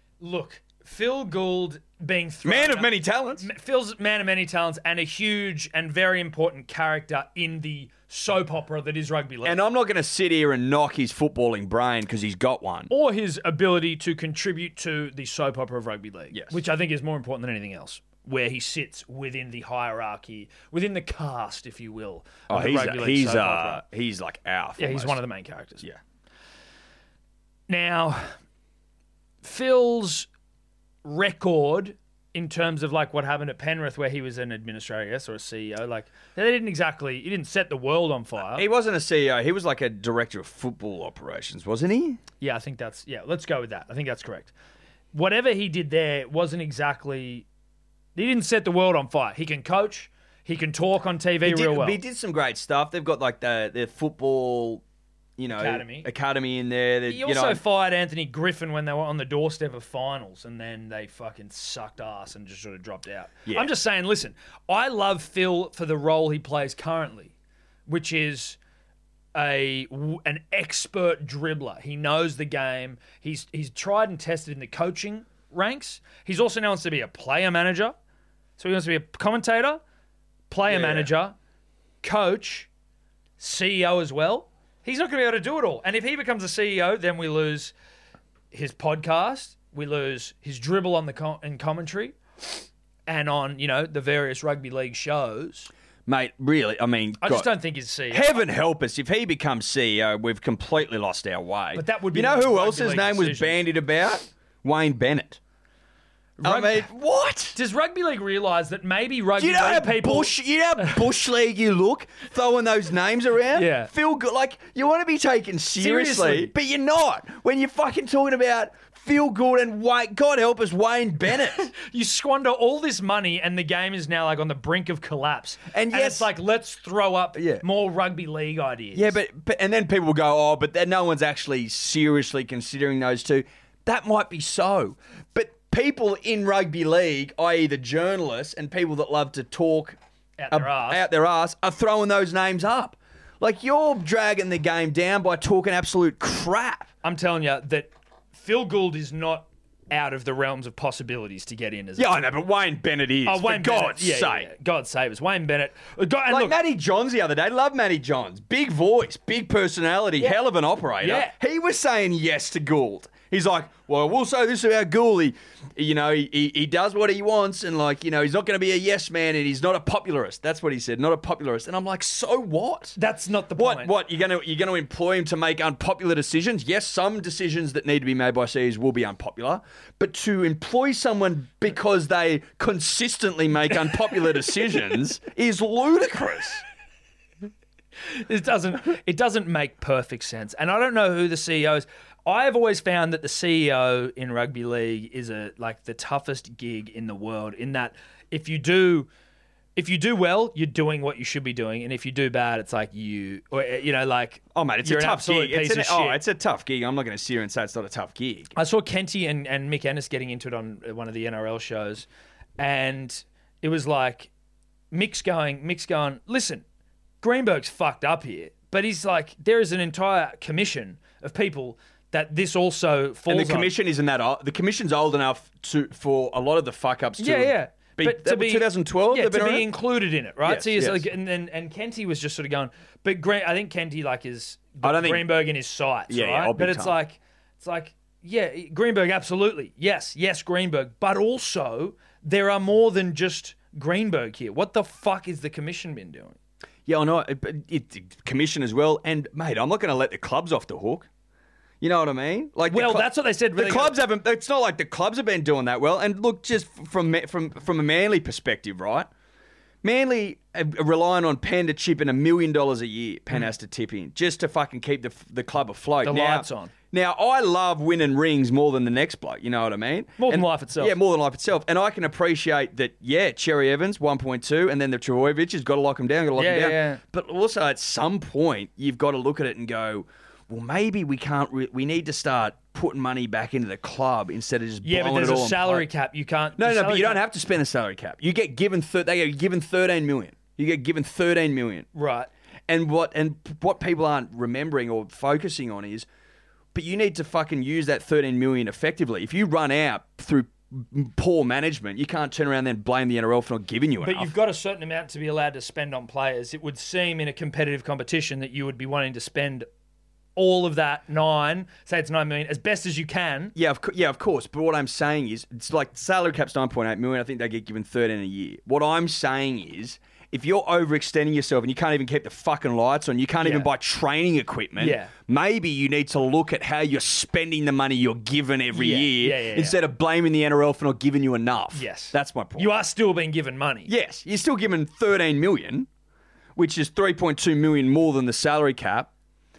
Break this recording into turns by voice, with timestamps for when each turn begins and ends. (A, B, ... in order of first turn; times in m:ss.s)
0:00.2-0:09.6 A
0:02.4-0:03.5 B
0:09.4-0:12.9 B
0:12.9-0:23.8 A
0:16.3-0:16.6 B
0:22.5-0:25.2 B
0:24.8-0:25.8 A
0:27.7-0:28.4 A
0:29.4-0:30.3 A
0:31.0-0:38.7 A
0:38.5-0:42.2 B
0:42.4-0:44.5 A
0:45.1-0:47.5 A
0:48.2-0:52.0 A
0:51.4-0:54.8 B
0:55.4-0:57.6 B
0:55.5-0:56.1 A
0:57.1-1:07.3 A
1:03.5-1:03.7 B
1:07.9-1:08.6 A
1:09.3-1:18.0 A
1:18.6-1:19.8 A
1:20.5-1:21.4 A
1:20.7-1:21.1 B
1:22.0-1:22.7 A
1:23.4-1:27.7 A
1:28.5-1:32.2 A
1:33.1-1:35.7 A
1:36.1-1:37.5 B
1:37.2-1:38.5 A
1:38.1-1:45.4 B
1:41.7-1:43.6 A
1:46.4-1:46.9 A
1:46.4-1:47.6 B
1:47.6-1:51.0 A
1:49.4-2:01.7 B
1:53.6-1:53.9 A
1:55.8-1:56.5 A
2:01.8-2:09.2 A
2:05.7-2:06.3 B
2:07.4-2:07.6 B
2:08.9-2:20.0 B
2:20.4-2:21.0 A
2:20.5-2:26.9 B
2:27.0-2:32.1 A
2:32.0-2:34.5 B
2:33.3-2:36.6 A
2:36.3-2:53.0 B
2:41.0-2:41.4 A
2:53.0-2:53.9 A
2:53.6-3:06.6 B
3:08.2-3:19.1 A
3:19.8-3:26.2 A
3:24.5-3:28.5 B
3:28.6-3:32.1 A
3:32.6-3:34.3 A
3:34.9-3:36.6 A
3:37.2-3:43.7 A
3:43.3-3:49.7 B
3:47.2-4:06.4 A
3:50.4-3:51.1 B
3:54.8-3:55.4 B
3:56.1-3:57.0 B
4:06.9-4:11.1 B
4:11.8-4:19.1 B
4:12.7-4:14.0 A
4:19.8-4:45.9 B
4:26.0-4:26.7 A
4:30.2-4:31.0 A
4:36.4-4:37.0 A
4:44.8-4:47.2 A
4:46.6-4:51.9 B
4:51.9-4:52.3 A
4:52.7-4:56.1 B
4:56.7-5:04.3 B
5:04.0-5:09.7 A
5:10.4-5:13.5 A
5:13.6-5:32.8 B
5:23.4-5:23.7 A
5:24.8-5:25.1 A
5:28.7-5:29.8 A
5:31.7-5:33.9 A
5:33.9-5:35.9 B
5:36.6-5:39.1 B